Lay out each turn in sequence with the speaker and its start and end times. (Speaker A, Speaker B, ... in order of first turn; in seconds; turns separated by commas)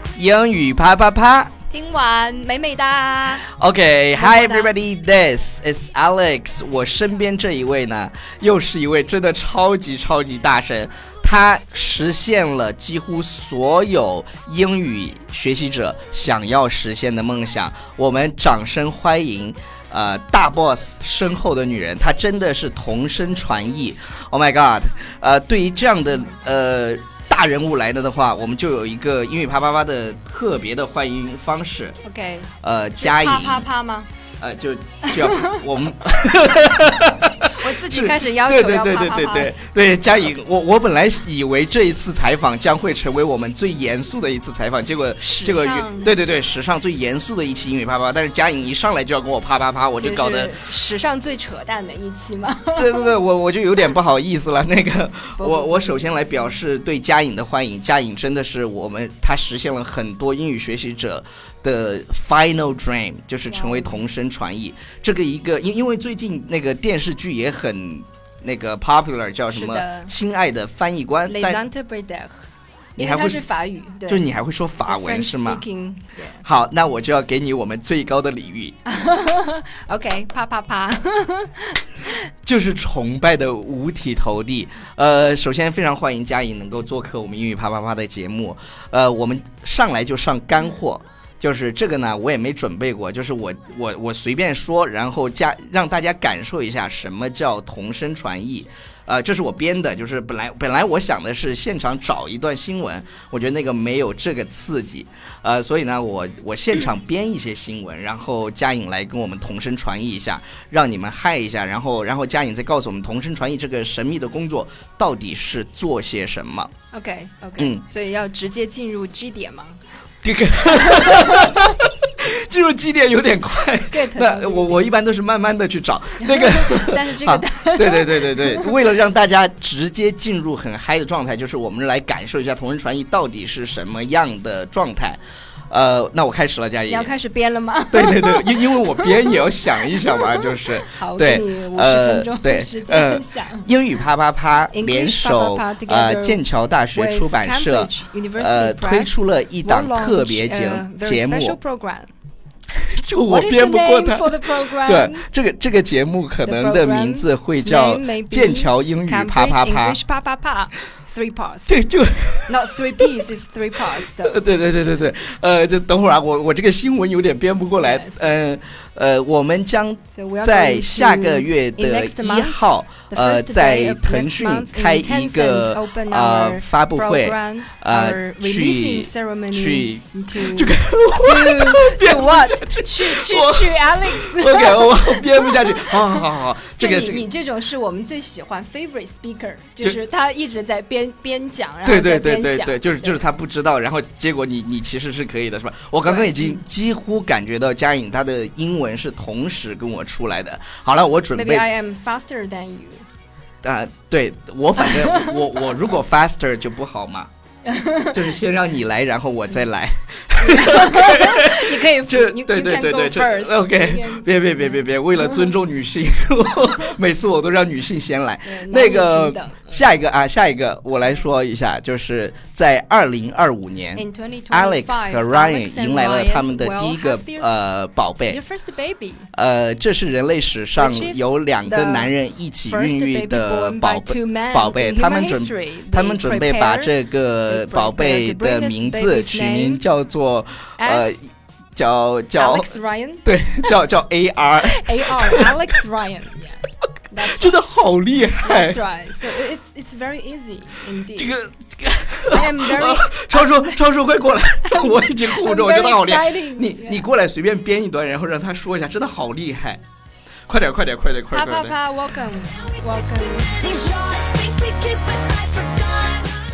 Speaker A: 0.2-1.5, Speaker B: 1.7-3.5, Speaker A: 3.4-32.0, Speaker B: 4.2-4.7, Speaker B: 32.0-34.1, Speaker A: 32.6-33.7, Speaker A: 34.4-50.6, Speaker B: 35.0-35.6, Speaker B: 37.4-39.5, Speaker B: 45.2-46.2, Speaker B: 50.0-53.1, Speaker A: 52.8-71.6, Speaker B: 55.4-56.4, Speaker B: 63.5-64.0, Speaker B: 69.5-70.1, Speaker B: 71.3-74.3, Speaker A: 73.0-73.5, Speaker A: 74.1-75.6, Speaker B: 74.8-76.4, Speaker A: 76.4-78.8, Speaker B: 78.9-82.2, Speaker A: 82.5-116.7, Speaker B: 116.9-119.8, Speaker A: 117.6-117.8, Speaker A: 120.2-137.1, Speaker B: 120.7-121.7, Speaker B: 123.9-124.9, Speaker B: 126.2-128.8, Speaker B: 136.9-143.7, Speaker A: 137.9-151.6, Speaker B: 144.7-146.4, Speaker B: 146.9-152.1, Speaker A: 152.7-160.0, Speaker B: 153.3-155.3, Speaker B: 156.4-161.8, Speaker A: 161.7-163.1, Speaker B: 162.5-164.4, Speaker A: 164.2-187.3, Speaker B: 167.8-168.2, Speaker B: 170.1-186.2, Speaker B: 186.8-193.2, Speaker A: 191.8-201.7, Speaker B: 196.0-196.6, Speaker B: 201.3-203.1, Speaker A: 203.6-207.3, Speaker B: 204.8-205.4, Speaker B: 207.7-208.3, Speaker A: 208.1-228.4, Speaker B: 210.4-214.8, Speaker B: 218.4-219.8, Speaker B: 224.0-227.5, Speaker B: 228.3-229.3, Speaker A: 229.3-242.7, Speaker B: 230.8-232.1, Speaker B: 232.7-239.8, Speaker B: 240.8-241.2, Speaker B: 242.4-243.7, Speaker A: 243.2-245.6, Speaker B: 244.6-247.6, Speaker A: 247.2-248.8, Speaker B: 248.4-251.4, Speaker A: 251.2-259.8, Speaker B: 252.3-253.8, Speaker B: 254.7-257.1, Speaker A: 260.5-261.8, Speaker B: 261.3-263.9, Speaker C: 262.5-266.4